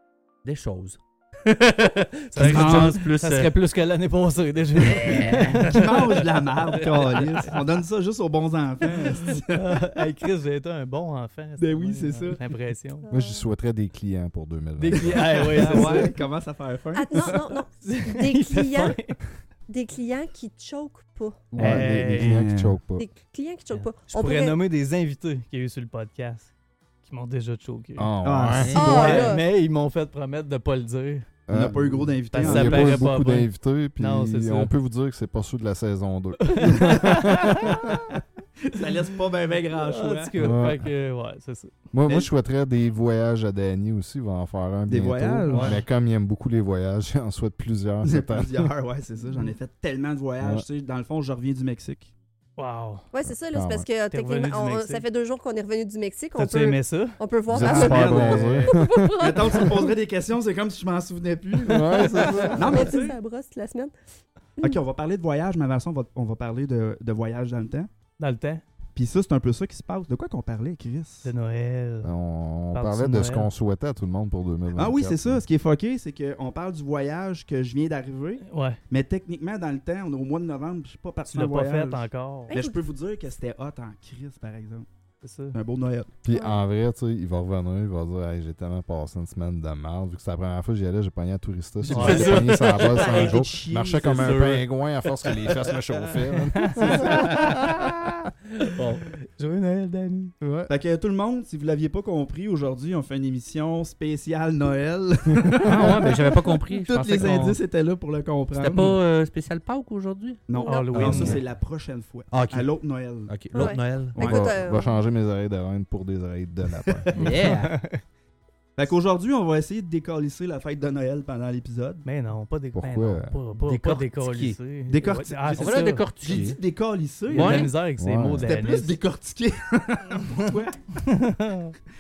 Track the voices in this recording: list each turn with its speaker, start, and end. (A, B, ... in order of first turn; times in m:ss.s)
0:00.4-0:03.5 A
0:02.3-0:07.6 B
0:02.4-0:03.0 C
0:04.8-0:05.7 A
0:04.9-0:10.0 C
0:08.8-0:13.1 B
0:11.6-0:12.4 C
0:13.1-0:13.5 D
0:13.1-0:15.8 E
0:14.8-0:16.2 B
0:15.0-0:17.6 C
0:16.9-0:19.0 D
0:17.8-0:19.2 B
0:19.7-0:21.5 D
0:21.5-0:23.1 E
0:21.6-0:22.8 C
0:21.6-0:22.5 B
0:23.0-0:24.6 D
0:23.7-0:26.5 B
0:27.0-0:28.1 B
0:28.0-0:29.2 E
0:28.2-0:29.3 C
0:28.6-0:29.0 A
0:28.7-0:29.4 D
0:28.7-0:31.3 B
0:31.5-0:38.2 E
0:31.5-0:33.1 C
0:32.3-0:34.7 B
0:36.4-0:37.9 B
0:36.6-0:37.1 C
0:38.6-0:40.5 C
0:39.7-0:41.8 B
0:40.4-0:40.9 E
0:41.9-0:48.7 E
0:44.9-0:45.8 C
0:45.5-0:45.8 B
0:45.5-0:45.8 A
0:48.0-0:52.1 C
0:52.6-0:53.1 B
0:53.1-1:00.0 D
0:53.3-0:53.9 E
0:54.1-0:55.0 B
0:56.4-0:57.2 B
0:57.5-0:59.2 E
0:57.5-1:03.0 C
1:01.6-1:02.8 E
1:02.2-1:03.2 B
1:02.4-1:03.9 D
1:04.6-1:07.9 C
1:08.2-1:08.6 B
1:09.0-1:11.3 C
1:11.2-1:12.2 B
1:12.0-1:15.4 E
1:12.7-1:13.5 B
1:14.7-1:24.9 C
1:18.5-1:18.8 B
1:21.3-1:22.5 B
1:22.5-1:22.8 D
1:25.2-1:25.6 B
1:25.5-1:26.1 C
1:26.2-1:38.3 E
1:26.3-1:26.6 D
1:31.8-1:32.8 A
1:31.9-1:33.4 B
1:32.0-1:34.6 C
1:32.8-1:33.4 D
1:34.0-1:34.6 B
1:35.4-1:36.2 C
1:36.5-1:37.5 B
1:38.6-1:39.0 A
1:39.4-1:40.3 B
1:40.4-1:49.0 C
1:45.5-1:45.8 E
1:45.6-1:47.6 A
1:48.5-1:51.4 A
1:50.5-1:54.5 C
1:50.6-1:51.2 D
1:50.6-1:51.4 B
1:52.3-1:52.7 A
1:53.3-1:54.2 A
1:53.5-1:55.0 D
1:54.2-1:57.1 E
1:56.8-1:57.4 C
1:57.1-1:57.8 A
1:57.1-1:58.0 B
1:58.8-2:02.1 C
2:02.0-2:06.0 B
2:02.7-2:03.4 E
2:03.6-2:04.6 A
2:04.9-2:07.7 C
2:05.6-2:06.6 A
2:07.3-2:07.7 A
2:07.3-2:09.0 B
2:08.0-2:08.5 E
2:08.4-2:10.9 C
2:10.2-2:11.8 B